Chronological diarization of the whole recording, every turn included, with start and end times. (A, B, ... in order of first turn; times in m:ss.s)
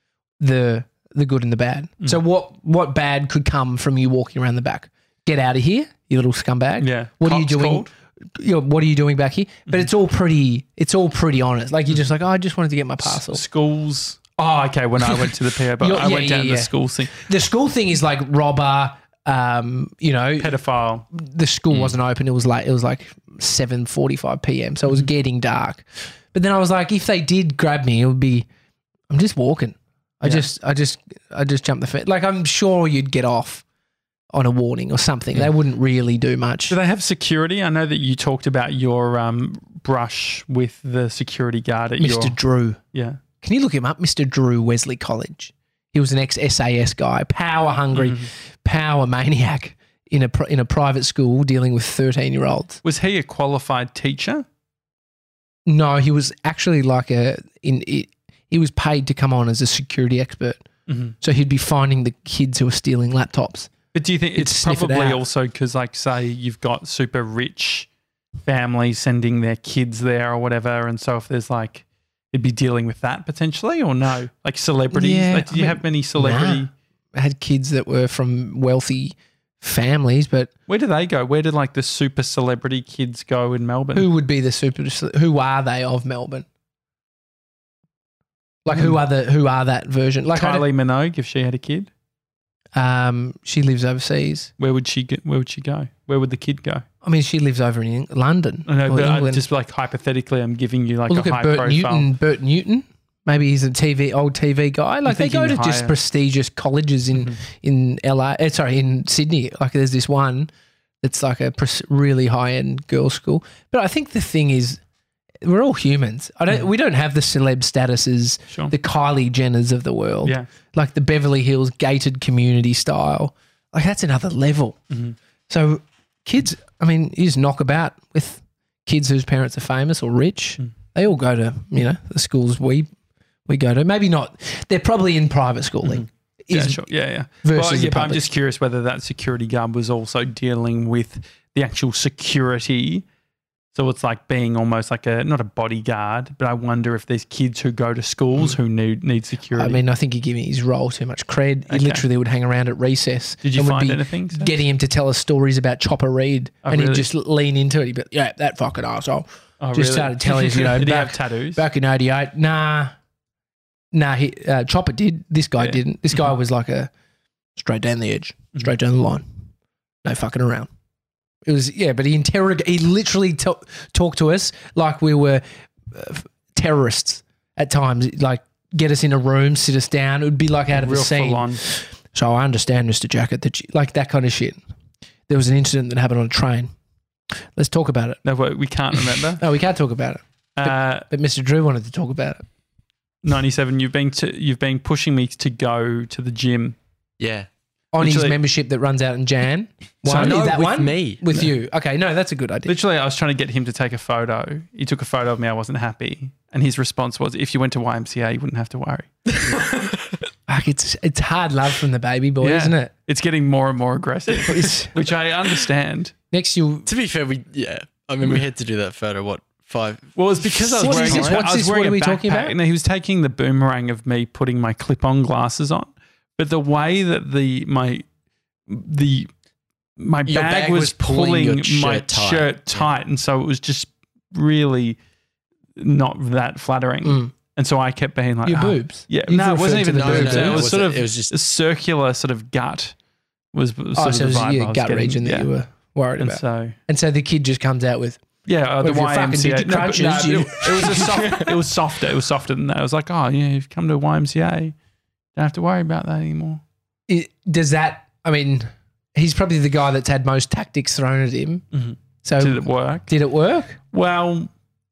0:00.4-0:13.4 A
0:06.8-0:07.9 B
0:13.0-0:17.2 B
0:15.8-0:20.5 A
0:20.4-0:21.0 B
0:21.1-0:28.5 A
0:29.1-0:33.6 A
0:34.3-0:36.8 A
0:36.7-0:42.4 B
0:42.0-0:42.8 A
0:42.9-0:43.2 B
0:43.4-0:52.8 A
0:47.9-0:48.3 B
0:52.8-0:54.4 B
0:55.6-1:00.6 A
1:00.9-1:01.1 B
1:01.2-1:03.7 A
1:03.9-1:07.9 B
1:04.3-1:05.2 A
1:08.4-1:16.7 B
1:14.9-1:20.5 A
1:20.7-1:24.1 B
1:23.9-1:26.4 A
1:28.6-1:30.6 A
1:28.7-1:29.0 B
1:30.3-1:31.9 B
1:32.7-1:34.5 A
1:34.6-1:36.8 B
1:37.0-1:39.4 A
1:38.7-1:42.1 B
1:41.1-1:50.5 A
1:45.0-1:45.9 B
1:51.0-1:54.8 A
1:55.4-2:04.8 A
2:04.9-2:05.2 B
2:05.5-2:12.9 A
2:13.4-2:16.9 A
2:15.8-2:23.0 B
2:17.4-2:18.3 A
2:23.7-2:29.8 B
2:29.6-2:42.9 A
2:31.7-2:32.0 B
2:33.4-2:34.5 B
2:36.6-2:37.1 B
2:39.6-2:41.6 B
2:43.9-2:46.9 A
2:47.6-2:49.2 A
2:50.0-2:50.7 A
2:51.4-3:04.6 A
3:00.7-3:01.6 B
3:05.3-3:06.7 A
3:07.5-3:08.2 A
3:08.2-3:09.4 B
3:09.4-3:12.4 A
3:10.6-3:11.1 B
3:13.2-3:16.8 B
3:17.2-3:17.5 C
3:17.9-3:22.7 A
3:18.0-3:18.4 B
3:20.0-3:20.6 B
3:20.1-3:21.2 C
3:22.6-3:29.1 B
3:29.4-3:30.2 C
3:30.5-3:32.9 A
3:32.4-3:36.1 B
3:34.4-3:35.1 A
3:36.3-3:36.9 A
3:36.8-3:41.4 C
3:40.2-3:48.0 B
3:40.8-3:42.5 A
3:48.7-3:49.3 B
3:50.0-3:55.0 B
3:50.3-3:52.9 C
3:55.8-4:03.0 B
3:57.0-3:57.3 A
3:58.4-4:00.7 A
3:59.9-4:01.3 C
4:03.5-4:05.5 B
4:04.0-4:08.2 A
4:06.2-4:06.8 B
4:08.4-4:14.7 B
4:08.8-4:11.5 A
4:15.4-4:16.6 B
4:17.1-4:21.6 A
4:21.7-4:23.1 B
4:22.2-4:23.8 A
4:23.9-4:24.5 B